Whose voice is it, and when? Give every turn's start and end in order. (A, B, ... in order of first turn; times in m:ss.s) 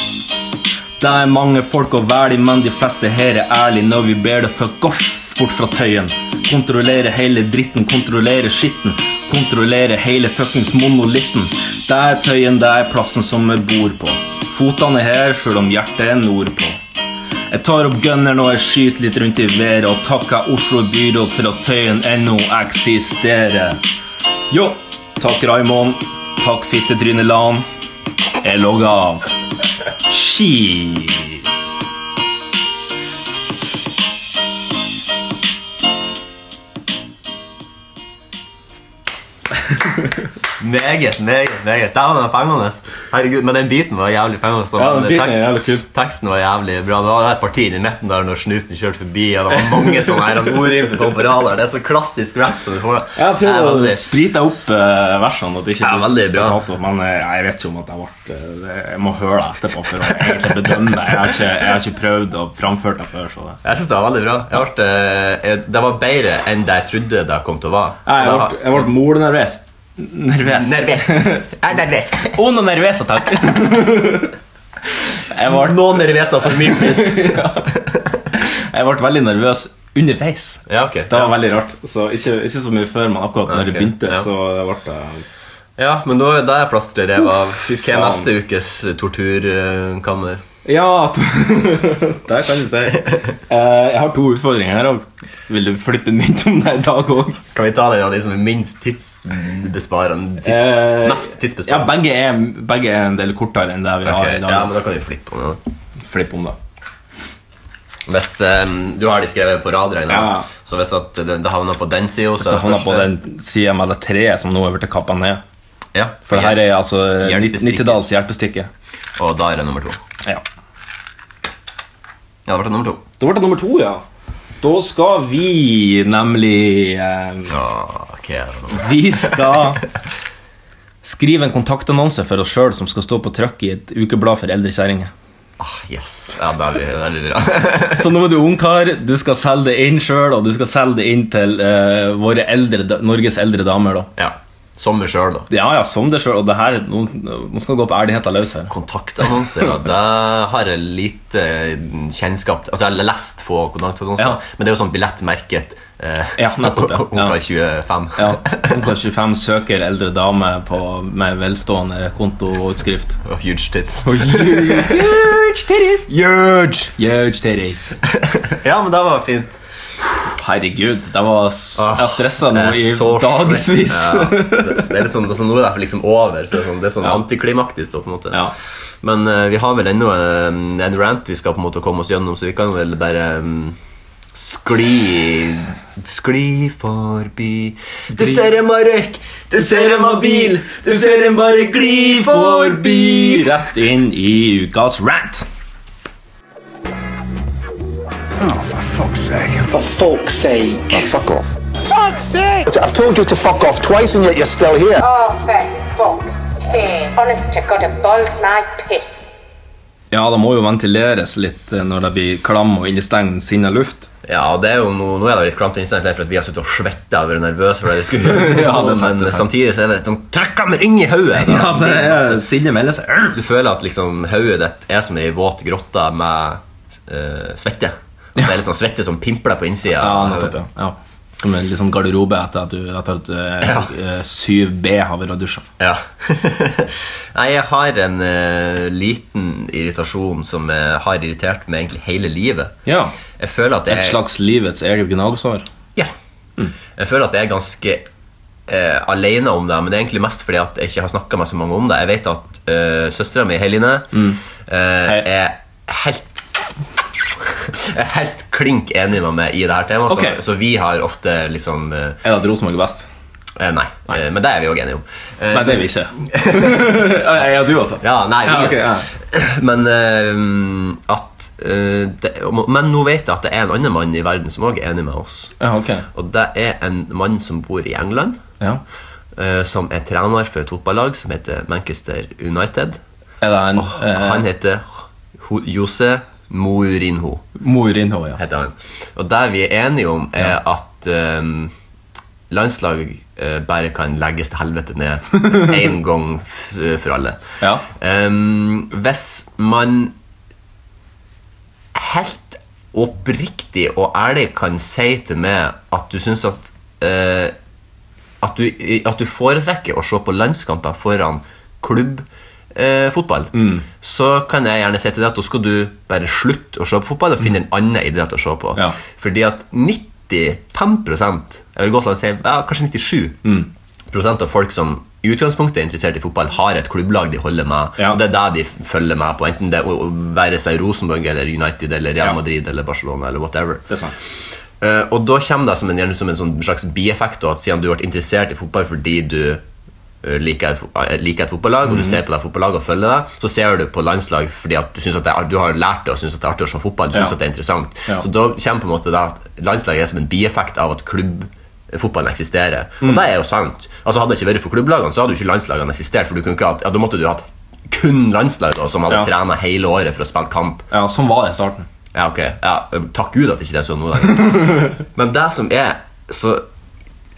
0:01.0-0:16.8 A
0:17.5-0:23.8 A
0:24.5-0:27.6 A
0:28.4-0:29.3 A
0:30.0-0:31.4 A
0:40.6-0:54.1 B
0:44.8-0:45.9 A
0:53.2-1:03.6 A
0:55.8-0:56.6 B
1:03.6-1:08.8 B
1:08.0-1:11.5 A
1:10.4-1:12.4 B
1:12.3-1:14.3 A
1:15.3-1:17.7 A
1:15.4-1:18.0 B
1:18.3-1:25.2 A
1:20.7-1:21.3 B
1:23.5-1:24.3 B
1:25.8-1:30.4 B
1:27.7-1:28.3 A
1:30.6-1:37.4 A
1:37.5-1:41.9 B
1:40.4-1:44.7 A
1:44.0-1:45.6 B
1:46.0-1:46.6 A
1:48.1-1:53.1 B
1:50.1-1:50.5 A
1:52.4-1:55.4 A
1:55.9-1:56.6 B
1:56.3-1:58.7 A
1:57.2-1:58.0 B
1:59.2-2:00.0 B
2:02.4-2:03.0 B
2:03.2-2:04.0 A
2:04.6-2:07.5 A
2:07.5-2:09.6 B
2:08.7-2:09.8 A
2:11.0-2:15.1 A
2:15.6-2:18.1 B
2:17.9-2:24.1 A
2:24.2-2:25.5 B
2:25.5-2:28.7 A
2:28.7-2:38.8 B
2:36.4-2:37.4 A
2:38.2-2:43.2 A
2:43.2-2:45.4 B
2:44.0-2:46.1 A
2:46.1-2:46.9 B
2:47.0-2:48.0 A
2:48.2-2:49.6 B
2:50.1-2:54.9 A
2:51.8-2:58.4 B
2:59.0-3:03.8 B
3:04.3-3:13.6 B
3:09.6-3:11.4 A
3:11.9-3:15.4 A
3:18.4-3:19.7 C
3:19.8-3:20.8 D
3:20.9-3:25.0 C
3:25.0-3:29.3 D
3:30.1-3:34.1 A
3:34.2-3:42.4 B
3:38.2-3:39.5 A
3:41.4-3:43.4 A
3:43.3-3:50.6 B
3:50.0-3:55.7 A
3:53.6-3:53.9 B
3:55.8-4:02.7 B
4:02.8-4:03.1 A
4:03.4-4:04.2 B
4:03.9-4:05.6 A
4:07.0-4:08.1 B
4:08.7-4:16.4 B
4:14.1-4:14.4 A
4:17.7-4:22.2 B
4:20.1-4:20.4 A
4:22.2-4:23.0 A
4:23.6-4:27.1 B
4:25.5-4:29.1 A
4:28.0-4:35.5 B
4:35.6-4:36.1 A
4:36.1-4:38.4 B
4:39.3-4:43.0 B
4:43.4-4:44.4 A
4:43.8-4:47.4 B
4:47.6-4:48.4 A
4:48.4-4:51.7 B
4:52.5-5:00.1 B
5:01.9-5:07.5 B
5:08.4-5:23.4 B
5:13.5-5:13.8 A
5:23.4-5:23.7 A
5:24.1-5:33.9 B
5:33.9-5:34.2 A
5:34.8-5:39.6 B
5:40.2-6:00.8 B
5:41.8-5:42.2 A
6:00.9-6:01.9 A
6:02.1-6:06.6 B